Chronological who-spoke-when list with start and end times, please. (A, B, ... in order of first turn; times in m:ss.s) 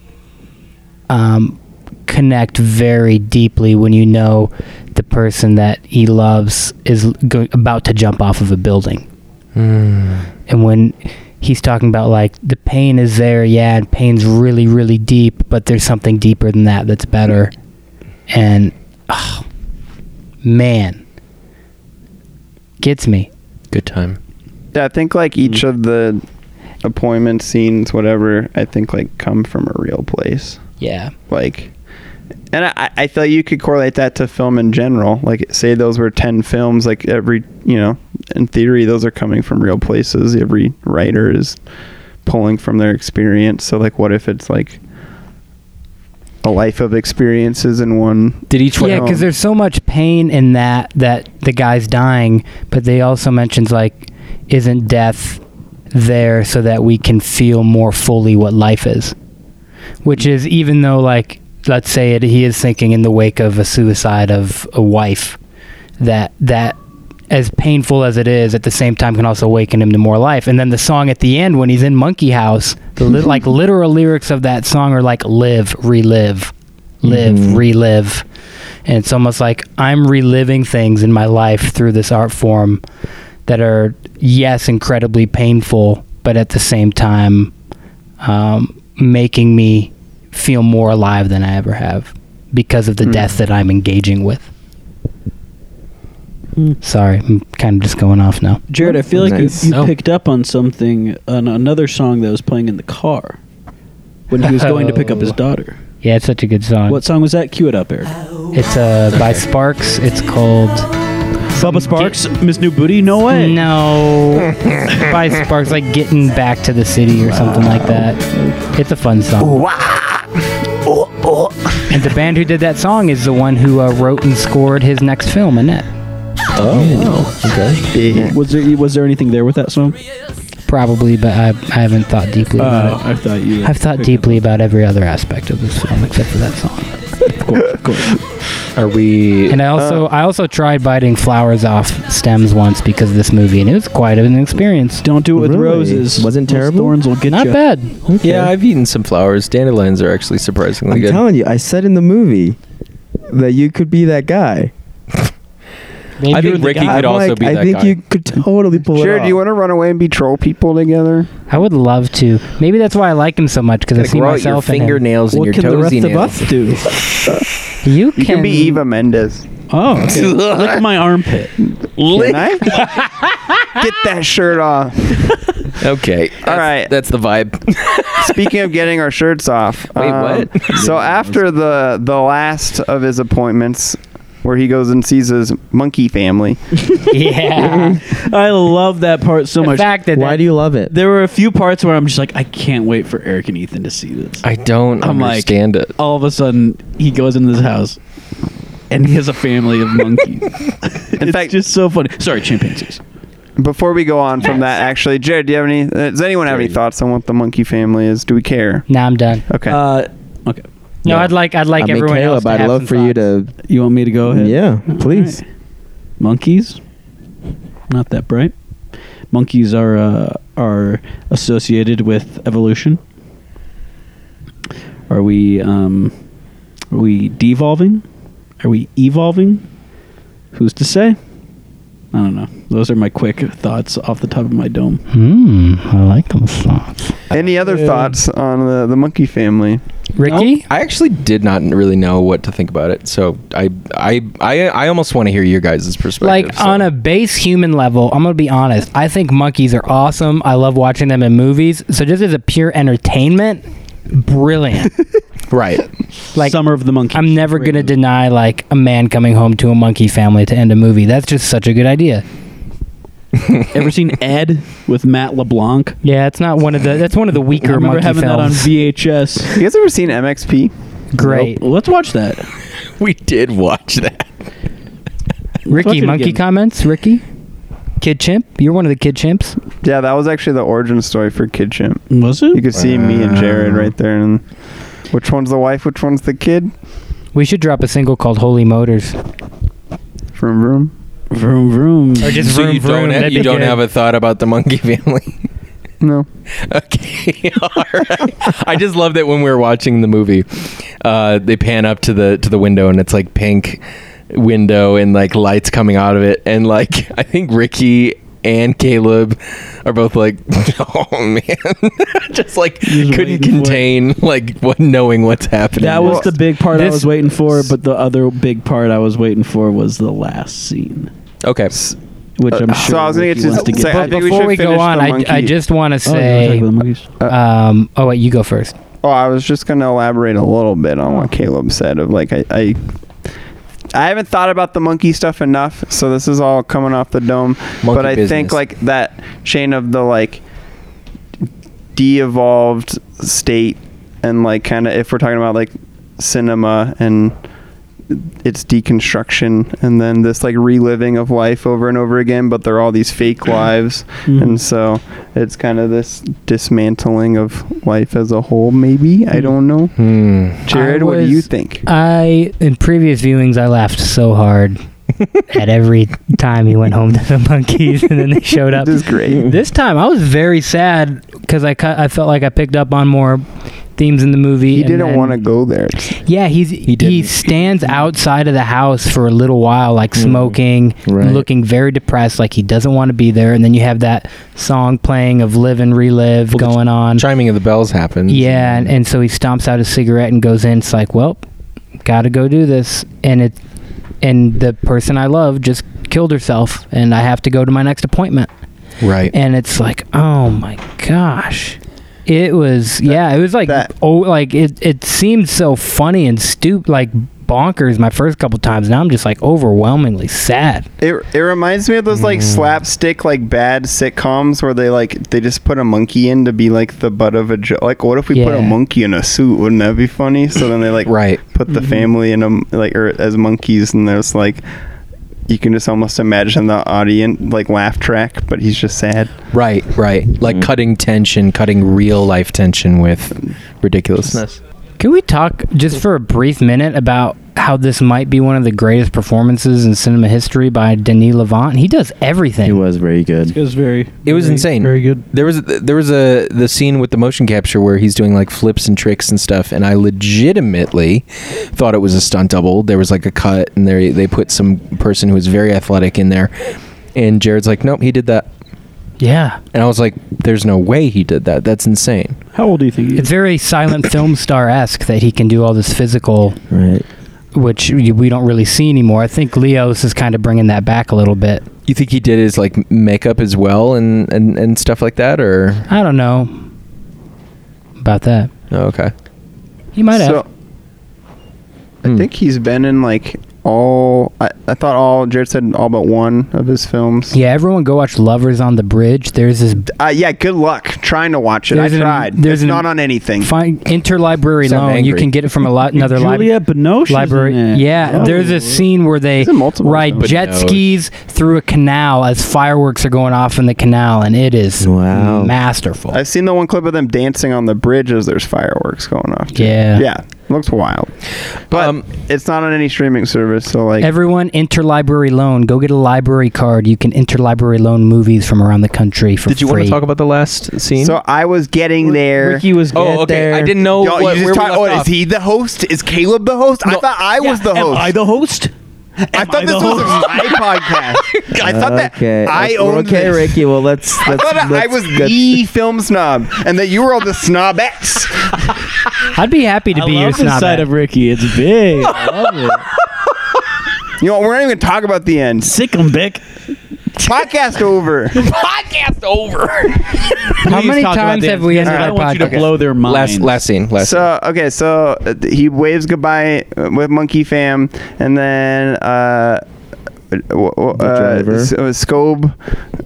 0:01.1-0:09.1 A
0:09.6-0:10.3 B
0:10.5-0:17.5 A
0:18.3-0:19.4 A
0:20.4-0:21.0 A
0:22.8-0:23.3 A
0:23.7-0:24.2 B
0:24.7-0:26.2 C
0:26.8-0:30.6 C
0:30.8-0:31.1 A
0:31.3-0:31.7 C
0:32.5-0:41.6 C
0:42.2-0:44.8 C
0:46.4-0:49.2 C
0:48.5-0:49.2 B
0:48.8-0:55.4 A
0:55.9-0:59.2 A
1:00.0-1:05.4 A
1:06.0-1:06.8 A
1:07.3-1:18.2 A
1:17.0-1:17.6 D
1:18.9-1:22.8 A
1:23.5-1:27.5 A
1:28.2-1:34.5 A
1:36.8-1:38.7 A
1:38.7-1:43.4 E
1:38.8-1:39.7 D
1:39.7-1:39.9 B
1:44.3-1:45.8 E
1:44.4-1:45.4 A
1:46.0-1:47.0 A
1:46.9-1:48.2 E
1:48.5-1:50.9 A
1:49.1-1:49.4 B
1:51.5-1:53.6 E
1:51.6-1:52.2 A
1:53.3-1:59.6 A
1:57.3-1:58.6 D
2:01.9-2:05.9 A
2:06.6-2:07.9 B
2:06.7-2:07.2 D
2:07.9-2:08.3 C
2:08.0-2:08.4 D
2:08.2-2:10.0 E
2:10.7-2:13.1 A
2:12.6-2:14.4 E
2:13.6-2:16.9 A
2:17.3-2:18.2 E
2:18.8-2:19.6 B
2:19.5-2:25.1 A
2:19.8-2:20.0 C
2:25.0-2:27.6 E
2:25.3-2:27.0 D
2:27.3-2:28.0 A
2:28.1-2:28.5 D
2:28.2-2:31.2 B
2:30.9-2:32.6 D
2:33.3-2:34.7 D
2:36.2-2:37.1 A
2:36.3-2:38.0 B
2:36.4-2:36.8 E
2:36.8-2:39.4 D
2:38.9-2:41.3 C
2:41.5-2:45.0 A
2:44.0-2:46.6 B
2:45.3-2:47.0 E
2:47.8-2:48.8 A
2:48.2-2:49.5 C
2:49.7-2:51.6 E
2:50.1-2:50.8 B
2:52.0-2:52.8 B
2:52.1-2:52.9 C
2:53.8-2:55.3 C
2:55.8-2:58.4 B
2:56.4-2:56.9 C
2:58.2-3:06.6 C
3:00.0-3:00.7 B
3:00.8-3:01.2 E
3:07.1-3:08.0 A
3:07.6-3:08.0 D
3:08.1-3:09.9 E
3:09.6-3:10.4 A
3:10.1-3:10.9 D
3:10.9-3:14.4 E
3:14.4-3:15.9 B
3:15.0-3:18.0 E
3:18.9-3:23.0 E
3:21.2-3:21.5 C
3:23.6-3:28.9 C
3:28.9-3:29.5 A
3:29.5-3:29.8 C
3:29.7-3:30.6 E
3:31.0-3:33.2 A
3:31.8-3:33.5 D
3:33.7-3:35.4 E
3:34.3-3:35.4 D
3:36.2-3:36.8 E
3:37.9-3:38.5 E
3:39.3-3:43.0 E
3:45.1-3:46.1 E
3:46.9-3:48.0 E
3:48.6-3:49.6 E
3:50.5-3:51.2 E
3:52.1-3:55.0 E
3:55.1-3:57.2 A
3:57.3-3:59.8 C
3:57.6-3:58.1 E
4:00.2-4:00.7 A
4:00.3-4:06.9 B
4:06.2-4:15.0 A
4:15.5-4:15.9 B
4:16.4-4:16.6 A
4:16.4-4:17.9 E
4:17.1-4:22.2 A
4:23.7-4:26.0 E
4:26.0-4:28.7 A
4:27.6-4:29.6 E
4:29.5-4:30.7 C
4:31.1-4:31.6 A
4:31.2-4:32.5 E
4:33.0-4:34.3 B
4:35.7-4:37.2 A
4:35.7-4:36.4 E
4:38.0-4:39.6 A
4:39.8-4:42.0 C
4:42.1-4:42.7 E
4:42.5-4:44.4 C
4:42.7-4:43.9 B
4:45.1-4:46.7 C
4:47.3-4:49.2 A
4:50.4-4:50.9 C
4:51.3-4:52.5 E
4:52.2-4:53.8 A
4:52.4-4:55.4 B
4:56.0-4:56.3 C
4:56.6-5:16.3 B
5:12.8-5:13.9 E
5:15.8-5:21.1 E
5:16.0-5:16.3 C
5:16.7-5:17.3 A
5:21.4-5:21.7 B
5:22.4-5:24.5 E
5:22.5-5:25.5 C
5:23.6-5:26.7 A
5:26.0-5:27.1 E
5:27.3-5:28.8 A
5:29.0-5:32.8 C
5:33.9-5:40.4 C
5:37.8-5:38.6 B
5:41.9-5:47.4 C
5:48.1-6:00.0 C
5:54.3-5:54.6 E
6:00.0-6:00.6 B
6:00.7-6:01.8 C
6:00.7-6:04.8 A
6:05.5-6:13.4 A
6:08.8-6:09.5 C
6:14.0-6:15.4 A
6:14.7-6:16.2 C
6:16.2-6:27.2 A
6:16.9-6:17.4 B
6:20.2-6:21.5 D
6:26.5-6:28.9 B
6:28.3-6:31.4 A
6:32.0-6:33.6 A
6:34.2-6:38.5 A
6:39.0-6:39.3 B
6:39.3-6:50.9 A
6:43.1-6:43.9 C
6:51.0-7:04.6 C
6:52.2-6:52.7 B
6:58.3-6:58.8 A
7:01.1-7:01.4 B
7:01.7-7:02.1 E
7:05.5-7:09.4 C
7:09.5-7:14.6 B
7:15.0-7:22.8 A
7:22.6-7:23.6 D
7:23.5-7:25.3 E
7:24.3-7:36.5 B
7:37.1-7:38.5 B
7:39.2-7:39.6 A
7:39.7-7:42.4 B
7:42.5-7:43.3 E
7:43.2-7:46.6 A
7:46.7-7:47.1 D
7:47.5-7:51.6 A
7:51.9-7:55.9 B
7:55.9-7:56.6 A
7:58.0-7:58.5 A
7:58.7-7:59.1 B
8:00.0-8:00.4 A
8:00.1-8:00.5 C
8:02.0-8:07.4 C
8:07.3-8:09.9 A
8:09.9-8:13.5 C
8:11.7-8:12.9 A
8:13.4-8:16.5 A
8:14.6-8:15.3 B
8:16.0-8:18.8 E
8:17.1-8:26.2 A
8:18.0-8:18.3 C
8:19.4-8:20.3 C
8:20.2-8:21.0 B
8:24.8-8:25.6 D
8:26.1-8:31.1 C
8:29.5-8:30.1 A
8:31.7-8:32.0 B
8:31.7-8:34.1 C
8:34.0-8:40.0 A
8:39.5-8:41.2 B
8:41.0-8:42.7 C
8:42.0-8:42.9 E
8:42.9-8:43.8 D
8:42.9-8:45.1 B
8:43.9-8:48.2 C
8:47.4-8:48.7 E
8:49.3-8:53.6 C
8:49.3-8:50.6 E
8:51.6-8:55.6 D
8:54.2-8:58.7 C
8:59.3-9:00.9 A
8:59.9-9:02.8 E
9:02.3-9:02.7 B
9:04.2-9:05.7 C
9:05.6-9:06.4 E
9:07.2-9:08.4 C
9:08.4-9:10.1 B
9:10.6-9:13.6 E
9:10.6-9:12.6 A
9:11.9-9:12.7 C
9:13.0-9:14.3 B
9:14.0-9:19.6 C
9:20.3-9:22.6 C
9:20.9-9:21.7 D